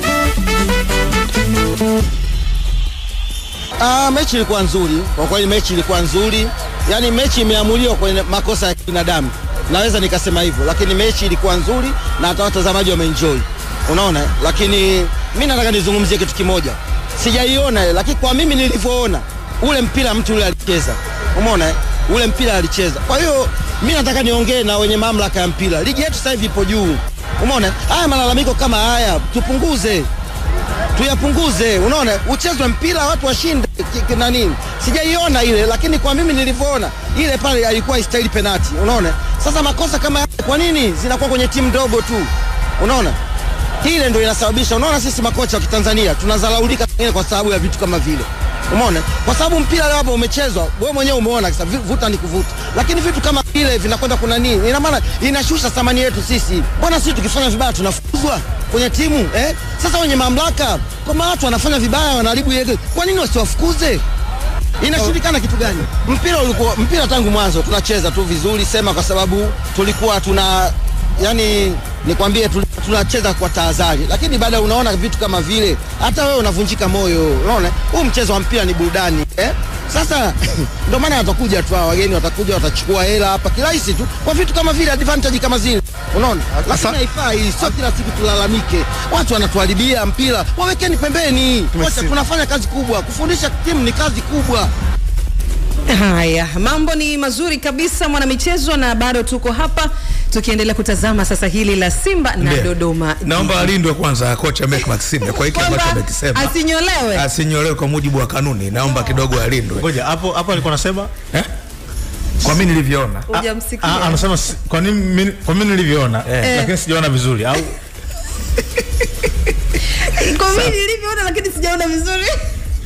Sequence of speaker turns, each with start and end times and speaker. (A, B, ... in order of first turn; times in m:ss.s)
0:03.8-0:30.1 A
0:31.0-0:43.2 A
0:43.8-1:04.0 A
1:04.8-1:34.7 A
1:26.7-1:27.0 B
1:31.8-1:32.2 B
1:35.9-1:43.7 C
1:42.4-1:42.7 B
1:43.2-1:46.5 B
1:45.4-1:47.2 C
1:47.1-1:49.9 B
1:49.8-1:51.1 D
1:52.4-1:53.3 B
1:53.3-1:54.2 C
1:53.8-1:57.7 D
1:56.4-1:56.7 C
2:00.0-2:02.4 C